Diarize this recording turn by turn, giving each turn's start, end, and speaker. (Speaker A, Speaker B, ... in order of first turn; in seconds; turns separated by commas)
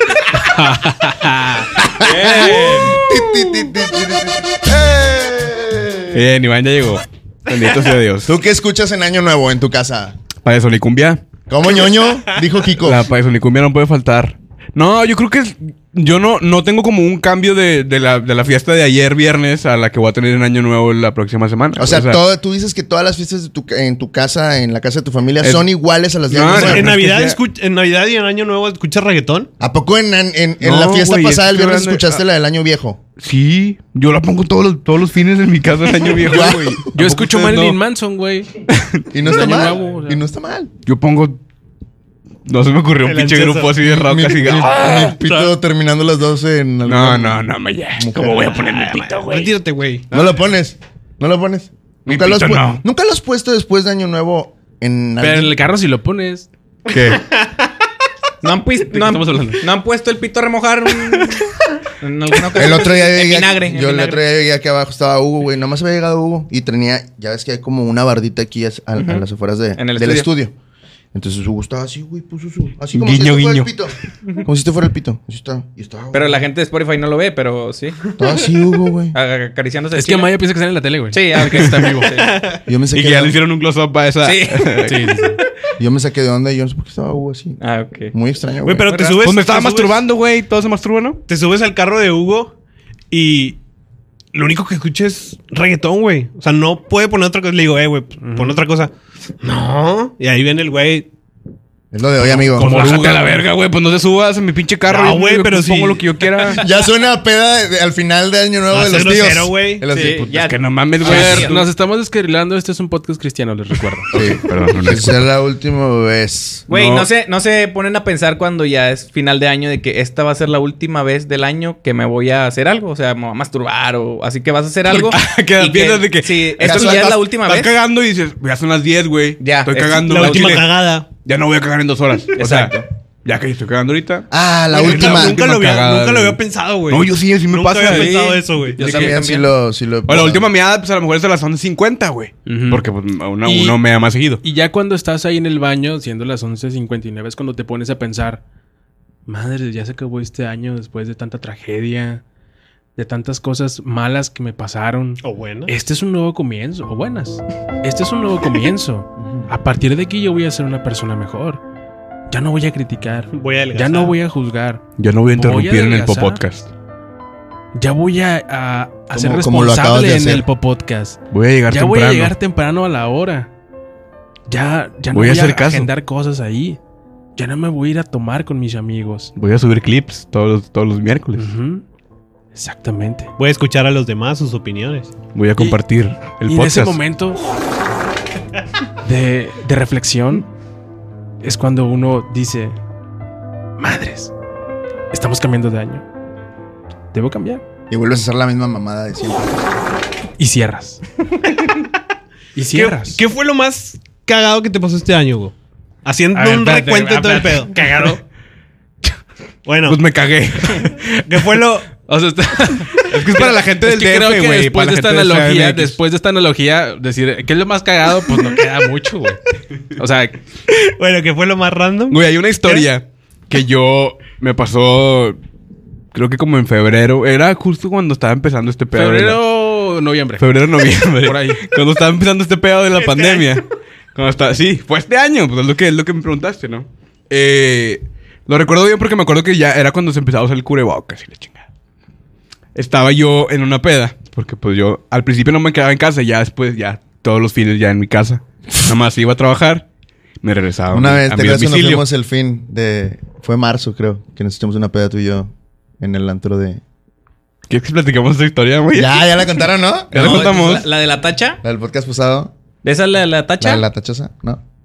Speaker A: 0.3-1.8, Speaker B: 1.8-6.2, Speaker C: 2.0-3.0, Speaker D: 6.1-8.3, Speaker B: 8.2-10.2, Speaker D: 10.4-11.2, Speaker B: 11.5-13.1, Speaker D: 12.8-22.2, Speaker B: 21.8-26.9, Speaker D: 25.4-25.7, Speaker D: 26.3-27.4, Speaker E: 26.5-29.5, Speaker B: 29.6-33.0, Speaker D: 30.6-32.2, Speaker D: 33.2-37.8, Speaker B: 36.2-36.9, Speaker A: 36.9-38.6, Speaker D: 38.7-39.0, Speaker B: 39.1-40.7, Speaker A: 39.2-40.2, Speaker D: 40.8-41.4, Speaker D: 42.5-45.4, Speaker E: 43.0-43.7, Speaker B: 43.9-48.6, Speaker D: 46.8-49.5, Speaker E: 49.1-50.0, Speaker D: 50.1-50.4, Speaker B: 50.1-55.5, Speaker D: 52.0-52.8, Speaker A: 55.2-56.5, Speaker D: 56.9-57.2, Speaker C: 58.4-61.5, Speaker A: 58.9-59.6, Speaker C: 62.0-64.2, Speaker B: 62.5-70.5, Speaker C: 69.0-69.2, Speaker C: 69.8-70.3, Speaker B: 71.1-76.4, Speaker D: 72.9-73.9, Speaker C: 76.1-78.0, Speaker B: 78.2-79.2, Speaker C: 79.1-80.3, Speaker A: 79.9-82.2, Speaker C: 81.1-82.4, Speaker E: 82.2-82.6, Speaker B: 82.7-83.4, Speaker D: 82.9-85.1, Speaker C: 84.2-84.9, Speaker A: 84.8-85.4, Speaker B: 85.8-87.6, Speaker C: 87.6-88.1, Speaker B: 88.1-89.0, Speaker E: 88.6-90.0, Speaker D: 89.2-91.2, Speaker E: 91.3-92.5, Speaker E: 93.1-93.6, Speaker E: 94.3-101.1, Speaker A: 98.2-98.5, Speaker B: 101.9-103.0, Speaker A: 102.3-103.4, Speaker D: 102.5-106.6, Speaker E: 104.9-106.1, Speaker B: 106.6-110.3, Speaker E: 108.7-109.9, Speaker C: 109.9-111.6, Speaker D: 110.1-111.6, Speaker A: 111.0-114.1, Speaker D: 114.1-115.2, Speaker B: 114.1-116.7, Speaker D: 116.7-117.1, Speaker C: 116.7-127.7, Speaker D: 124.9-130.7, Speaker B: 126.6-127.2, Speaker C: 129.4-130.6, Speaker E: 130.0-131.1, Speaker D: 131.2-139.2, Speaker C: 132.3-132.8, Speaker B: 134.3-135.4, Speaker E: 134.7-138.8, Speaker C: 137.9-138.2, Speaker C: 138.7-139.5, Speaker B: 138.8-140.5, Speaker D: 140.1-144.4, Speaker A: 142.4-142.8, Speaker A: 143.4-143.8, Speaker A: 144.4-148.4, Speaker A: 149.2-152.2, Speaker A: 152.9-161.6, Speaker E: 155.2-155.7, Speaker B: 159.2-159.5, Speaker A: 162.3-164.8, Speaker E: 163.3-164.2, Speaker D: 165.0-166.7, Speaker A: 165.3-166.4, Speaker A: 167.7-173.5, Speaker B: 169.1-170.4, Speaker D: 171.3-172.3, Speaker A: 174.5-176.8, Speaker D: 175.1-175.9, Speaker A: 177.3-179.3, Speaker D: 179.3-181.5, Speaker A: 181.3-181.8, Speaker A: 182.5-183.3, Speaker E: 183.4-185.1, Speaker D: 185.3-187.0, Speaker A: 186.4-187.4, Speaker A: 189.0-190.4, Speaker A: 191.4-192.8, Speaker A: 193.8-194.3, Speaker A: 195.1-196.0, Speaker A: 197.1-197.6, Speaker B: 197.9-199.6, Speaker A: 200.4-201.0, Speaker A: 202.5-203.2, Speaker E: 202.7-205.5, Speaker E: 206.0-208.2, Speaker A: 206.3-208.2, Speaker E: 209.6-210.0, Speaker D: 209.8-211.6, Speaker E: 211.3-211.9, Speaker A: 212.0-219.4, Speaker D: 213.0-216.0, Speaker A: 219.9-220.4, Speaker E: 221.0-222.9, Speaker D: 222.1-225.4, Speaker D: 226.1-229.4, Speaker A: 228.9-230.6, Speaker D: 230.4-241.6, Speaker A: 231.2-231.6, Speaker E: 233.0-233.6, Speaker D: 242.7-249.8, Speaker D: 250.4-252.0, Speaker B: 250.9-256.8, Speaker D: 257.7-259.5, Speaker B: 258.9-260.5, Speaker D: 260.1-260.9, Speaker C: 260.1-261.6, Speaker B: 261.6-262.5, Speaker C: 262.8-263.8, Speaker B: 263.6-264.6